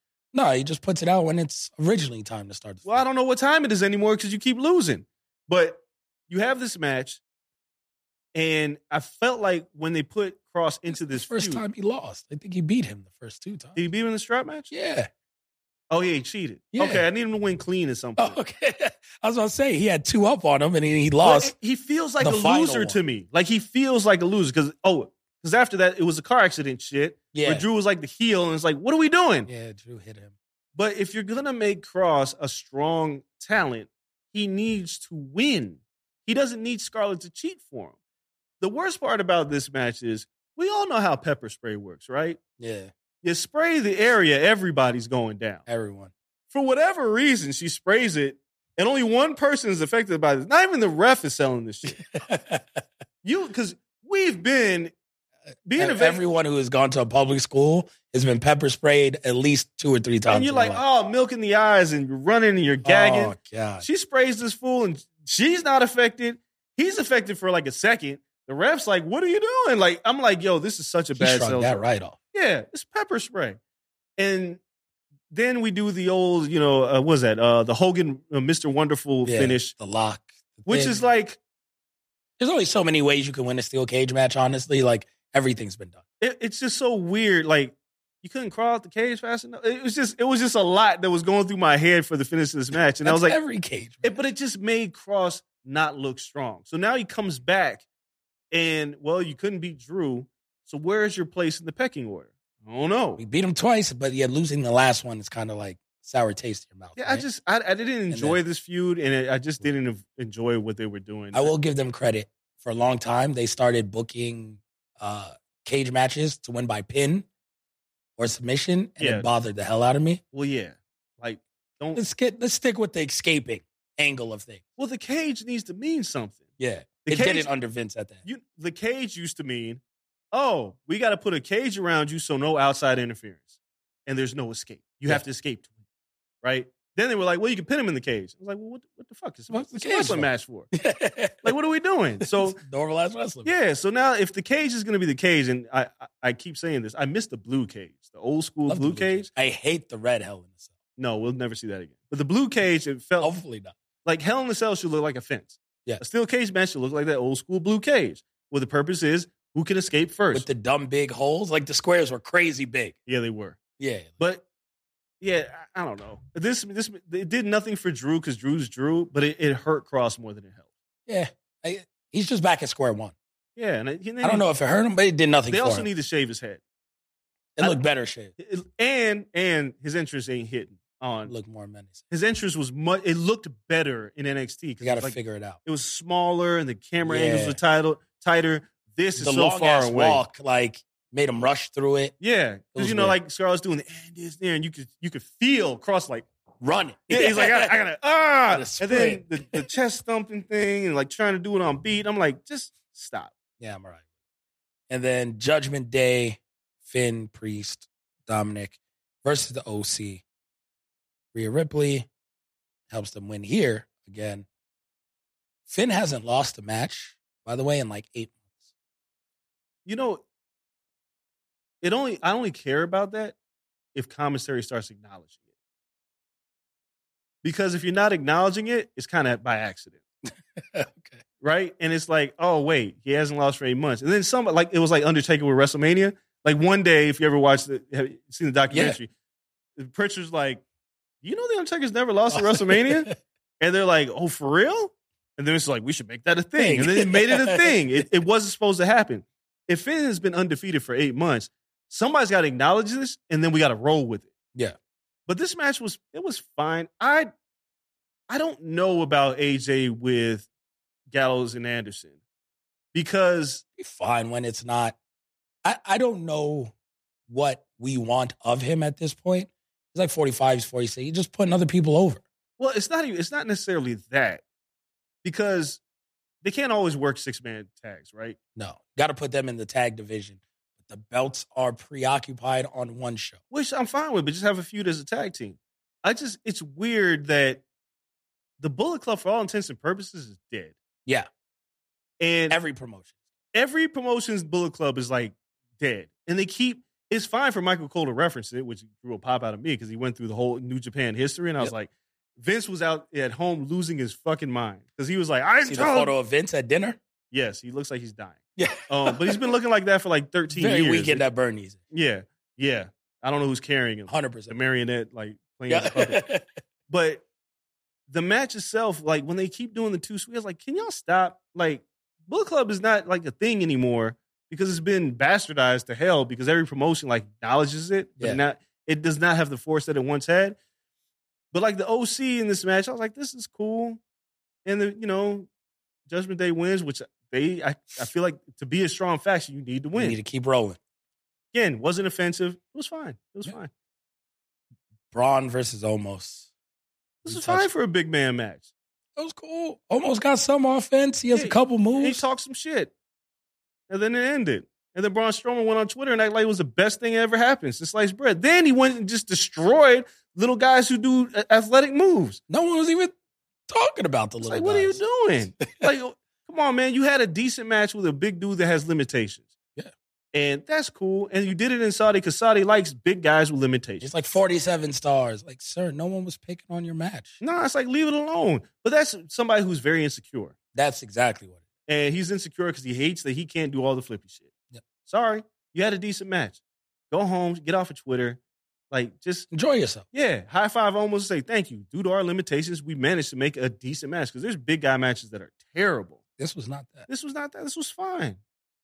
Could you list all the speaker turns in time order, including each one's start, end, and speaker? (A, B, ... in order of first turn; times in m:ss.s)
0:00.3-0:03.0 A
0:02.8-0:07.2 B
0:08.3-0:11.6 B
0:10.9-0:13.8 A
0:13.8-0:14.7 B
0:14.7-0:15.1 A
0:15.9-0:18.4 B
0:16.7-0:17.0 A
0:18.2-0:21.5 A
0:21.2-0:29.5 B
0:22.2-0:23.0 A
0:27.3-0:27.6 A
0:29.4-0:30.3 A
0:30.8-0:37.9 B
0:38.6-0:42.4 B
0:42.6-0:42.9 A
0:43.2-0:45.6 B
0:45.7-0:46.1 A
0:46.5-0:52.0 B
0:51.9-0:52.8 A
0:53.2-0:54.9 B
0:55.6-0:56.2 B
0:55.8-1:00.8 A
1:00.3-1:11.8 B
1:02.8-1:03.9 A
1:11.2-1:12.2 A
1:12.3-1:13.6 B
1:14.2-1:14.6 B
1:15.3-1:19.8 B
1:19.2-1:21.0 A
1:20.7-1:21.4 B
1:22.4-1:26.0 A
1:26.2-1:33.4 B
1:33.0-1:34.2 A
1:34.0-1:37.8 B
1:38.5-1:43.2 B
1:43.2-1:47.2 A
1:47.0-1:51.5 B
1:48.1-1:48.4 A
1:51.3-1:57.2 A
1:58.2-2:00.2 A
1:59.0-1:59.3 B
2:00.3-2:02.0 B
2:01.9-2:04.6 A
2:04.8-2:06.5 B
2:06.6-2:08.2 A
2:07.1-2:07.5 B
2:08.2-2:09.8 B
2:10.3-2:15.7 B
2:16.4-2:20.7 B
2:19.5-2:21.5 A
2:21.4-2:22.6 B
2:22.2-2:23.5 A
2:23.4-2:29.3 B
2:28.7-2:30.6 A
2:31.0-2:33.3 B
2:33.2-2:33.7 A
2:34.0-2:40.5 B
2:40.3-2:42.9 A
2:43.1-2:43.6 B
2:43.8-2:44.1 A
2:44.2-2:44.4 B
2:45.2-2:50.6 B
2:51.1-2:53.1 A
2:53.6-2:54.4 B
2:54.2-2:55.9 A
2:55.5-2:56.6 B
2:57.6-2:58.3 A
2:58.4-3:01.3 B
3:01.2-3:02.0 A
3:02.1-3:10.2 B
3:04.8-3:05.6 A
3:07.0-3:07.6 A
3:09.2-3:12.1 A
3:12.2-3:16.2 B
3:12.7-3:13.2 A
3:16.6-3:17.7 A
3:17.1-3:23.3 B
3:18.5-3:19.6 A
3:23.6-3:24.0 A
3:24.9-3:30.2 A
3:31.3-3:32.1 A
3:32.9-3:34.4 A
3:35.7-3:38.4 A
3:39.8-3:40.2 B
3:41.8-3:43.4 B
3:43.9-3:45.3 B
3:47.4-3:50.0 B
3:50.6-3:51.2 A
3:51.4-3:59.1 B
3:58.7-3:59.0 A
3:59.8-4:00.6 B
4:01.2-4:03.1 B
4:02.3-4:03.2 A
4:03.6-4:14.3 B
4:06.6-4:07.7 A
4:15.3-4:17.3 B
4:18.3-4:20.5 B
4:21.1-4:22.2 B
4:22.9-4:23.6 B
4:23.8-4:25.0 A
4:25.6-4:26.7 A
4:27.3-4:32.2 A
4:32.6-4:34.4 B
4:35.2-4:35.8 B
4:36.4-4:38.4 B
4:38.6-4:43.4 A
4:43.5-4:47.6 B
4:48.6-4:50.7 B
4:52.2-4:52.6 B
4:52.5-4:53.1 A
4:53.5-5:06.1 B
5:05.6-5:07.0 A
5:07.3-5:11.2 B
5:08.6-5:09.4 A
5:10.5-5:11.8 A
5:11.9-5:16.2 B
5:14.1-5:14.5 A
5:15.7-5:16.6 A
5:16.9-5:17.2 B
5:18.1-5:30.6 B
5:31.5-5:34.0 B
5:34.6-5:35.5 B
5:36.1-5:40.2 B
5:39.9-5:40.8 A
5:41.5-5:43.7 B
5:45.1-5:46.5 A
5:47.2-5:47.7 A
5:47.2-5:48.7 B
5:49.2-5:52.2 A
5:51.3-5:52.9 B
5:53.9-6:02.4 B
6:02.5-6:03.1 A
6:03.7-6:05.0 A
6:04.4-6:09.5 B
6:10.3-6:14.1 B
6:14.0-6:17.4 A
6:17.4-6:20.5 B
6:20.7-6:21.6 A
6:21.9-6:24.5 B
6:25.0-6:26.6 B
6:27.1-6:28.4 B
6:28.9-6:29.5 B
6:29.5-6:30.0 A
6:30.1-6:36.2 B
6:36.4-6:37.1 A
6:37.1-6:38.4 B